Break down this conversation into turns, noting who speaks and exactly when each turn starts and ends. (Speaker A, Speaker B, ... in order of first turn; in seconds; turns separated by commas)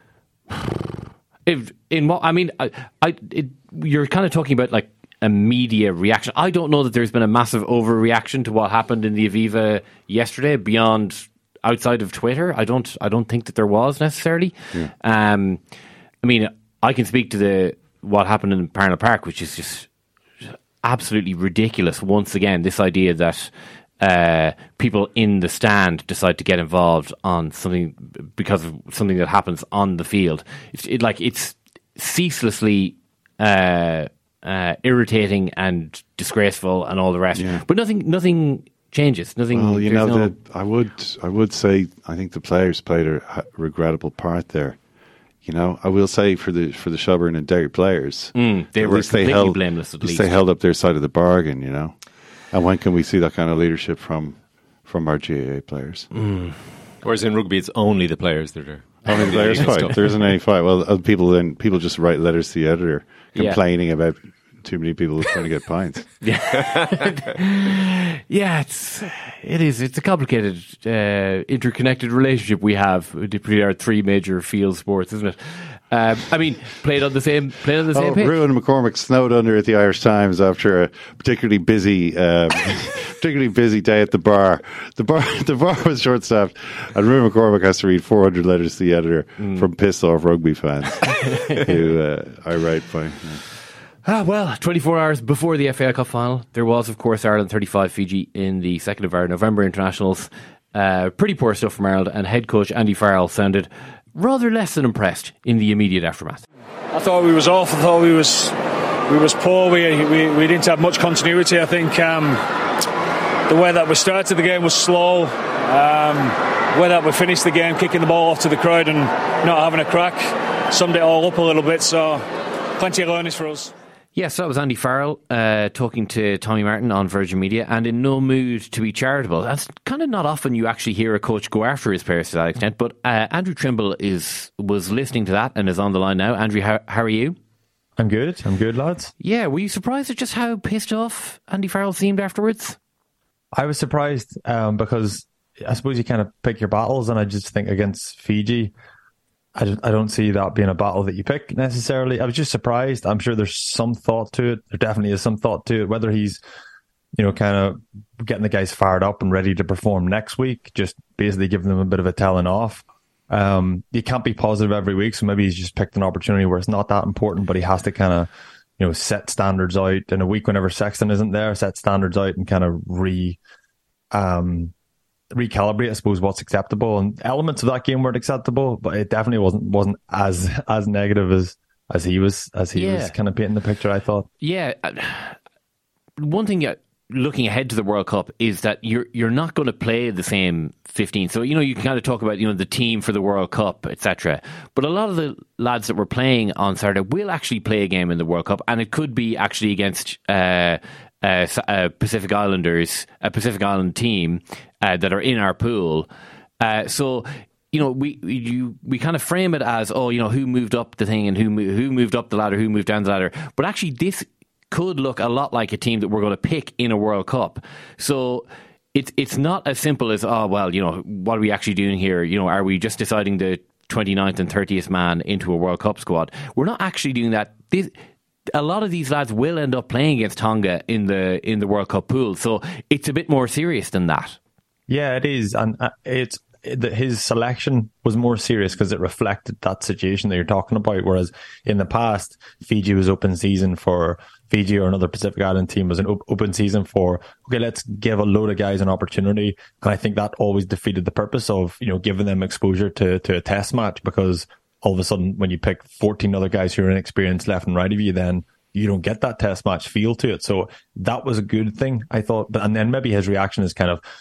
Speaker A: 1.4-15.6, Speaker A: 16.2-19.9, Speaker A: 20.5-40.3, Speaker B: 37.3-37.6, Speaker B: 39.5-56.1, Speaker A: 48.3-50.4, Speaker A: 56.1-56.5, Speaker C: 57.0-60.2, Speaker B: 59.0-66.2, Speaker A: 59.1-60.1, Speaker A: 63.3-63.6, Speaker A: 66.2-78.4, Speaker B: 77.9-93.4, Speaker A: 89.4-89.7, Speaker A: 91.2-91.6, Speaker A: 94.0-106.4, Speaker D: 106.9-108.5, Speaker D: 109.1-112.4, Speaker D: 113.5-122.2, Speaker D: 122.8-123.7, Speaker A: 124.2-137.3, Speaker E: 138.0-139.1, Speaker A: 139.2-142.8, Speaker E: 143.5-148.7, Speaker E: 149.5-156.4, Speaker E: 157.2-173.4, Speaker E: 174.1-174.7, Speaker E: 175.3-184.3, Speaker A: 182.7-183.1, Speaker A: 184.4-185.4, Speaker A: 186.2-206.1, Speaker A: 206.6-227.9, Speaker A: 228.5-234.4, Speaker E: 234.9-264.0